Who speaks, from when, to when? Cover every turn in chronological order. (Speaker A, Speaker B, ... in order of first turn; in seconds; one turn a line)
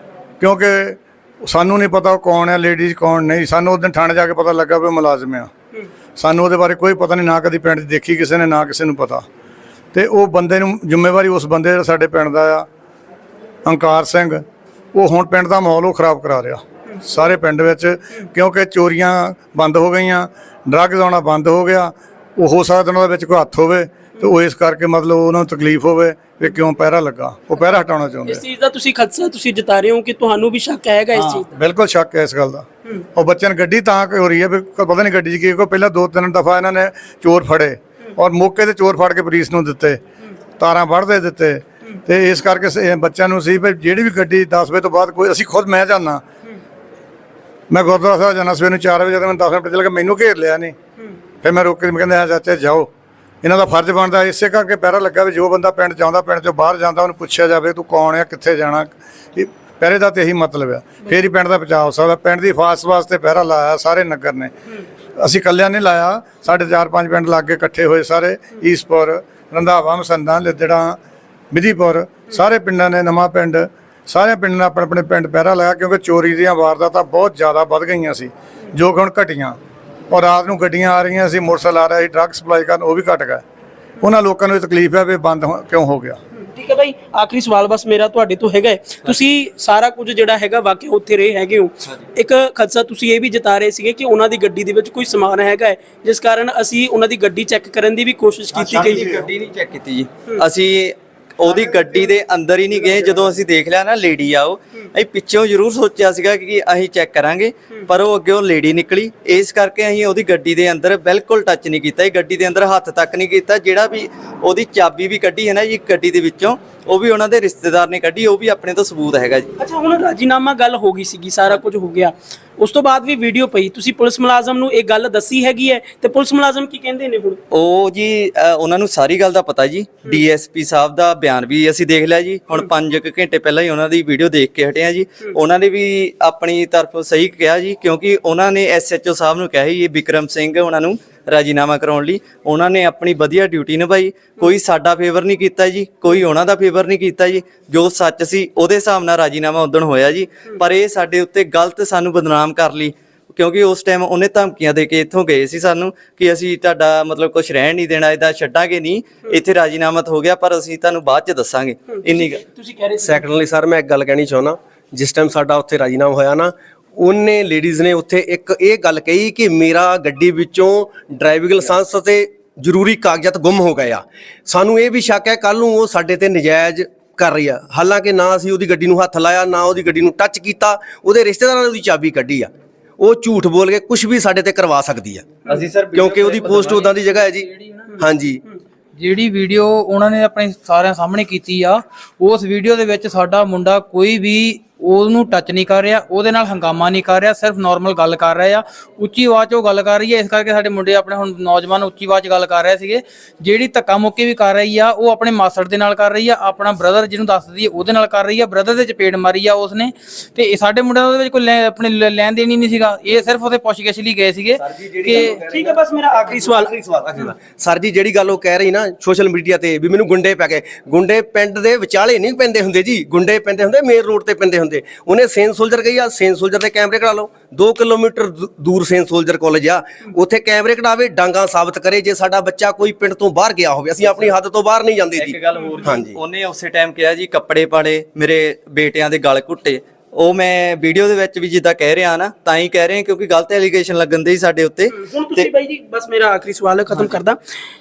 Speaker A: 0.4-5.5
Speaker A: 6.2-9.2
Speaker A: 9.9-12.7
Speaker A: 13.7-14.4
Speaker A: 14.9-28.4
Speaker B: 28.3-31.5
Speaker A: 31.2-40.0
Speaker A: 40.6-46.2
Speaker A: 47.7-50.7
Speaker A: 51.4-52.9
Speaker A: 53.4-64.5
Speaker A: 65.2-71.0
Speaker A: 71.5-79.6
Speaker A: 80.1-83.4
Speaker A: 84.0-86.2
Speaker B: 86.4-99.2
Speaker C: 98.5-119.5
Speaker B: 119.6-127.4
Speaker C: 127.5-162.4
Speaker B: 162.0-163.2
Speaker D: 163.0-185.3
Speaker C: 185.5-186.9
Speaker D: 185.9-188.4
Speaker E: 189.0-215.3
Speaker D: 214.6-236.2
Speaker B: 215.4-216.7
Speaker C: 235.2-245.5
Speaker B: 244.9-247.4